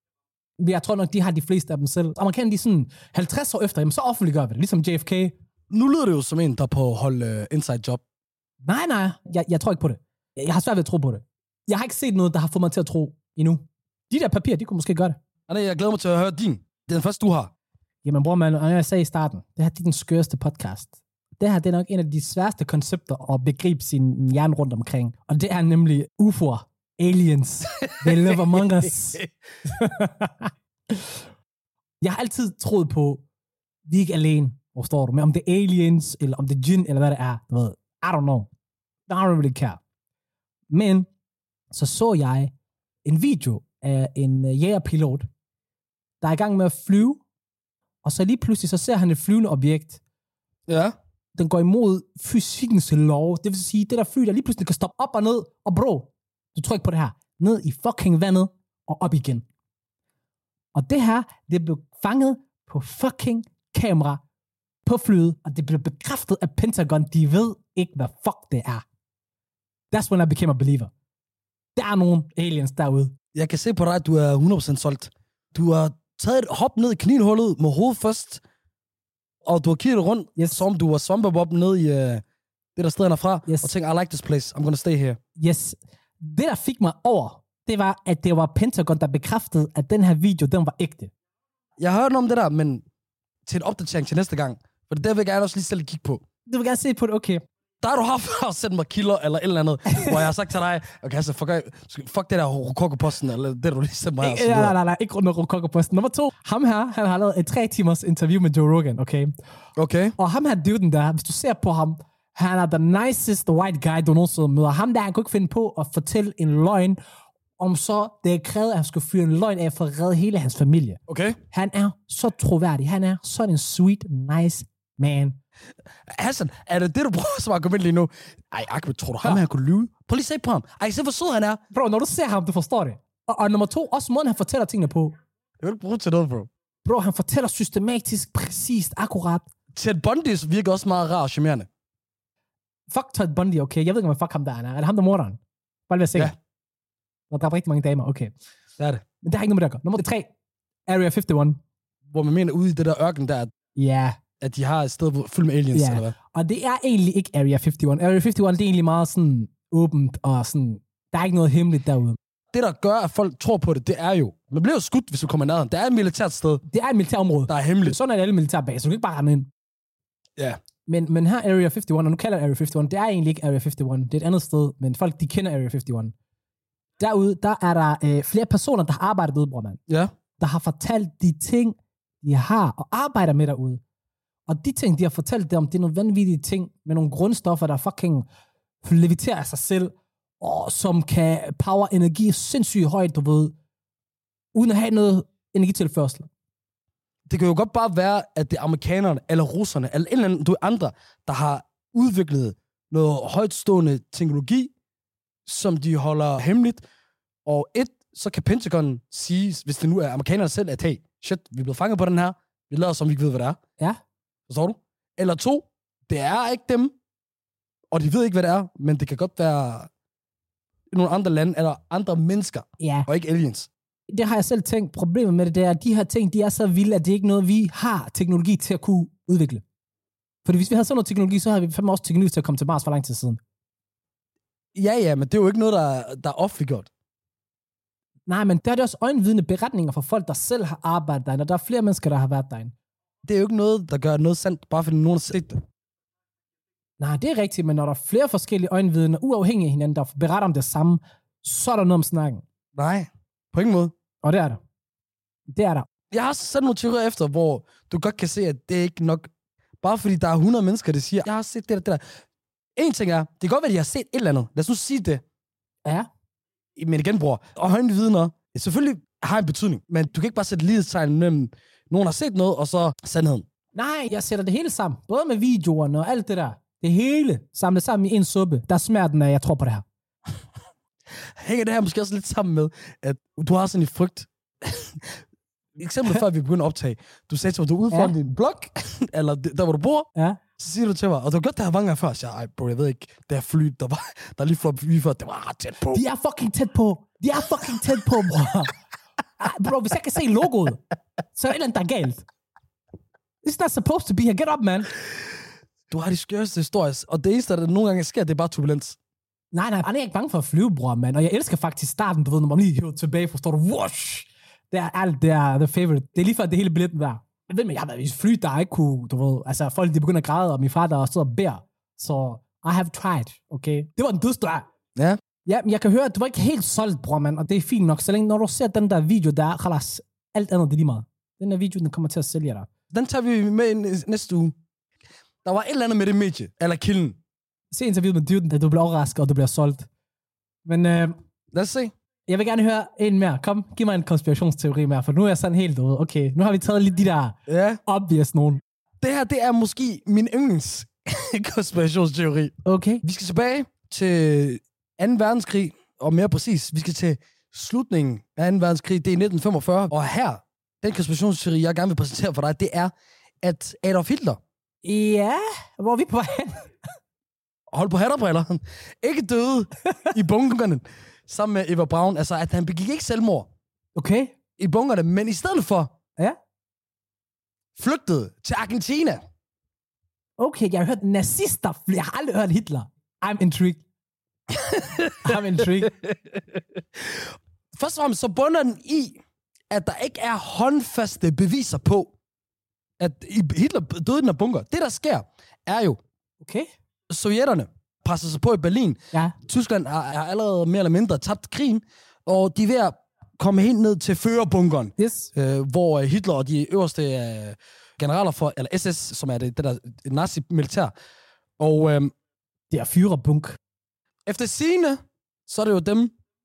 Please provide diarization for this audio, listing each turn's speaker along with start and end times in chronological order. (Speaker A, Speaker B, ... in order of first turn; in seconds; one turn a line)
Speaker A: 0.6-5.3
Speaker B: 5.7-8.0
Speaker A: 8.6-15.2
Speaker B: 15.5-17.5
Speaker A: 18.0-31.2
Speaker A: 32.0-33.2
Speaker A: 33.9-38.5
Speaker A: 39.1-39.8
Speaker A: 40.7-41.1
Speaker A: 41.7-42.5
Speaker A: 43.0-45.3
Speaker A: 46.2-47.2
Speaker A: 48.0-50.0
Speaker B: 50.7-50.9
Speaker A: 51.3-59.4
Speaker A: 60.7-64.2
Speaker A: 64.8-68.8
Speaker A: 69.9-70.9
Speaker A: 71.8-73.1
Speaker B: 73.3-78.4
Speaker B: 79.4-82.2
Speaker B: 82.8-85.2
Speaker A: 83.5-83.7
Speaker A: 85.4-91.1
Speaker B: 91.8-92.8
Speaker B: 93.5-96.2
Speaker A: 96.5-97.4
Speaker B: 97.8-104.7
Speaker A: 99.9-100.2
Speaker A: 104.2-109.3
Speaker B: 109.8-110.2
Speaker A: 110.2-117.0
Speaker A: 117.6-121.0
Speaker B: 121.1-121.4
Speaker A: 121.5-125.4
Speaker B: 126.1-131.6
Speaker A: 131.7-135.1
Speaker B: 135.6-136.5
Speaker A: 136.8-139.5
Speaker B: 139.7-141.7
Speaker A: 142.9-146.3
Speaker A: 147.3-148.3
Speaker B: 148.8-149.0
Speaker A: 149.2-150.3
Speaker A: 150.9-151.6
Speaker B: 152.1-153.5
Speaker A: 153.7-154.2
Speaker B: 154.4-156.1
Speaker A: 155.7-162.2
Speaker B: 162.5-166.6
Speaker A: 166.7-169.5
Speaker B: 167.5-168.0
Speaker A: 170.8-176.1
Speaker A: 177.0-179.8
Speaker A: 180.4-183.8
Speaker A: 184.5-188.2
Speaker A: 188.8-193.5
Speaker A: 194.5-196.3
Speaker B: 197.3-204.7
Speaker B: 205.4-206.8
Speaker B: 207.4-213.6
Speaker B: 214.5-216.9
Speaker B: 217.9-219.9
Speaker B: 220.9-223.7
Speaker A: 222.8-223.1
Speaker A: 224.1-229.6
Speaker A: 230.4-233.4
Speaker B: 234.7-236.9
Speaker A: 238.3-242.7
Speaker B: 243.2-245.6
Speaker A: 247.0-252.4
Speaker B: 252.7-253.9
Speaker A: 254.2-254.6
Speaker A: 255.5-255.9
Speaker B: 256.1-259.3
Speaker B: 259.8-262.0
Speaker B: 262.8-265.2
Speaker B: 266.8-273.4
Speaker A: 273.7-279.8
Speaker B: 281.4-285.2
Speaker B: 285.8-296.0
Speaker A: 295.9-298.7
Speaker A: 299.4-300.8
Speaker A: 301.3-302.2
Speaker A: 303.4-304.9
Speaker B: 305.9-309.0
Speaker A: 309.5-324.7
Speaker A: 325.4-332.7
Speaker B: 332.9-334.5
Speaker B: 335.4-337.2
Speaker A: 337.7-339.9
Speaker A: 340.6-341.1
Speaker B: 341.5-341.9
Speaker A: 342.3-348.6
Speaker B: 347.5-347.8
Speaker B: 349.0-364.4
Speaker A: 352.6-353.0
Speaker A: 364.8-366.7
Speaker B: 367.7-373.5
Speaker A: 369.9-370.1
Speaker A: 373.9-374.4
Speaker B: 374.6-375.9
Speaker B: 377.8-379.2
Speaker A: 380.4-383.8
Speaker B: 384.7-389.2
Speaker A: 385.2-385.9
Speaker B: 389.7-392.1
Speaker B: 393.0-396.0
Speaker A: 396.4-396.7
Speaker B: 397.1-410.9
Speaker A: 405.0-405.3
Speaker B: 411.6-412.1
Speaker A: 412.7-413.6
Speaker B: 414.2-416.1